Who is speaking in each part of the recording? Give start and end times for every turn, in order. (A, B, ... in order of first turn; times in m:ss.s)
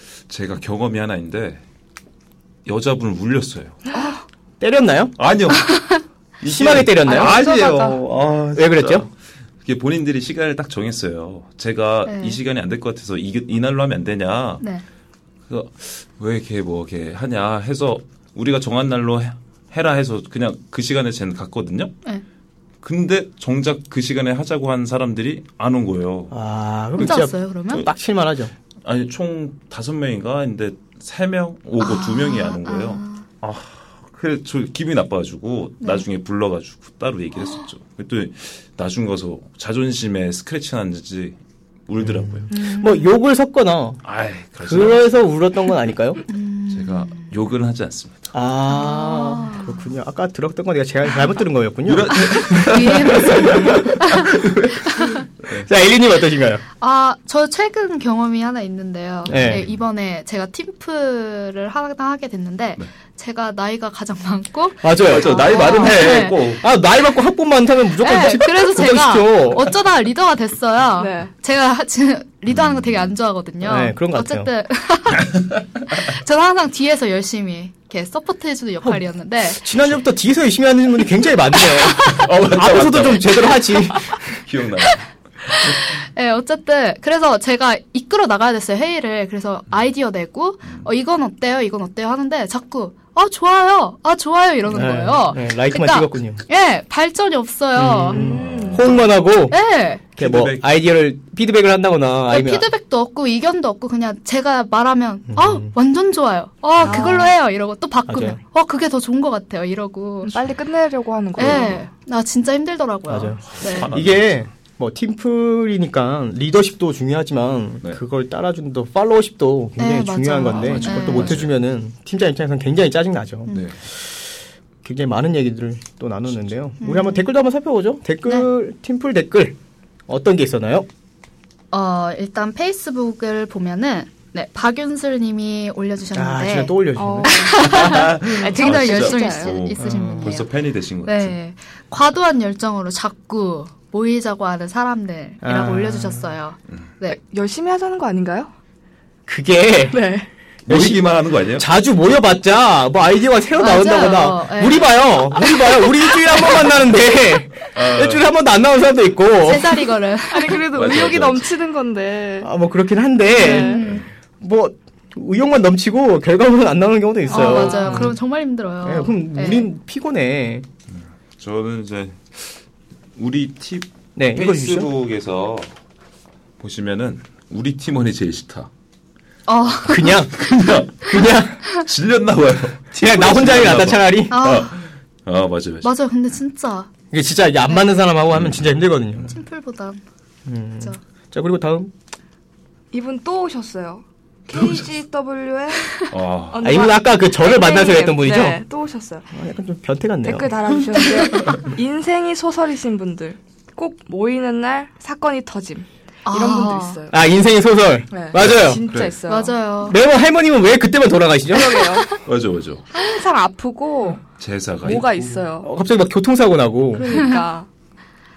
0:00.3-0:01.6 A
0:02.6-0:03.8 A
0:04.6-0:05.2 B
0:05.2-0:09.1 A
0:06.4-0:07.4 B
0:07.0-0:08.0 C
0:08.6-0:09.1 B
0:09.6-0:14.6 A
0:12.1-0:12.4 D
0:15.5-0:22.0 A
0:22.8-0:26.3 A
0:26.3-0:28.5 B
0:27.0-0:27.9 D
0:28.8-0:42.5 A
0:31.8-0:33.3 D
0:35.8-0:36.1 D
0:37.4-0:37.6 D
0:42.0-0:44.0 B
0:42.6-0:42.9 D
0:44.0-0:45.1 A
0:44.6-0:46.2 B
0:46.3-0:47.3 D
0:46.7-0:48.3 A
0:48.3-0:54.9 B
0:48.7-0:49.8 D
0:51.9-0:54.7 A
0:52.2-0:55.2 D
0:55.5-0:56.6 B
0:56.8-1:06.6 D
0:59.3-0:59.6 B
1:04.8-1:05.4 B
1:05.0-1:06.6 A
1:05.3-1:06.0 C
1:06.6-1:09.7 B
1:08.0-1:15.4 D
1:11.0-1:11.3 C
1:12.5-1:13.1 A
1:13.6-1:14.5 B
1:15.3-1:15.6 A
1:15.9-1:19.6 D
1:18.8-1:24.2 B
1:22.0-1:22.2 D
1:22.0-1:26.0 A
1:25.5-1:38.2 D
1:34.7-1:36.4 B
1:37.8-1:39.6 B
1:38.1-1:38.9 C
1:38.2-1:39.0 A
1:39.5-1:40.1 D
1:40.2-1:42.7 B
1:40.2-1:40.7 A
1:42.3-1:50.4 D
1:45.3-1:45.7 B
1:46.8-1:47.2 B
1:46.9-1:47.3 C
1:48.1-1:48.4 B
1:50.2-1:51.9 C
1:51.4-1:53.9 D
1:53.1-2:04.3 B
1:53.5-1:54.2 A
1:59.8-2:01.4 D
2:01.0-2:01.5 A
2:03.5-2:03.8 A
2:04.8-2:09.6 B
2:06.8-2:07.3 D
2:10.1-2:10.9 B
2:11.7-2:16.7 D
2:16.1-2:17.3 B
2:17.0-2:19.6 C
2:17.3-2:20.5 D
2:17.7-2:21.4 A
2:19.8-2:20.4 B
2:21.0-2:27.2 D
2:25.4-2:26.3 B
2:27.1-2:28.5 C
2:29.3-2:30.0 B
2:29.9-2:30.3 C
2:30.6-2:39.9 B
2:30.7-2:31.7 A
2:33.6-2:35.0 D
2:37.8-2:38.3 A
2:39.4-2:40.6 D
2:40.3-2:42.5 C
2:40.7-2:41.5 A
2:42.4-2:48.2 B
2:43.3-2:43.8 C
2:43.4-2:44.1 D
2:47.3-2:48.1 C
2:47.3-2:49.7 D
2:48.8-2:50.7 B
2:50.9-2:52.6 A
2:53.2-2:55.7 A
2:54.2-2:54.9 B
2:56.6-2:58.7 A
2:59.5-3:00.2 D
2:59.9-3:01.6 B
3:00.3-3:05.9 A
3:02.9-3:04.4 B
3:04.3-3:04.8 D
3:05.8-3:06.9 D
3:07.1-3:09.4 B
3:08.3-3:09.3 A
3:09.3-3:10.0 D
3:10.5-3:11.9 B
3:12.9-3:19.3 C
3:14.5-3:14.8 A
3:16.1-3:16.7 A
3:16.6-3:18.6 B
3:19.3-3:21.5 B
3:20.2-3:27.2 C
3:26.3-3:27.0 D
3:27.1-3:28.8 B
3:28.1-3:29.6 C
3:28.4-3:29.2 A
3:29.3-3:30.0 D
3:29.8-3:32.0 B
3:31.5-3:32.2 C
3:32.2-3:32.9 A
3:32.9-3:34.2 C
3:34.4-3:35.4 A
3:34.8-3:35.7 C
3:35.6-3:37.3 B
3:36.9-3:37.7 C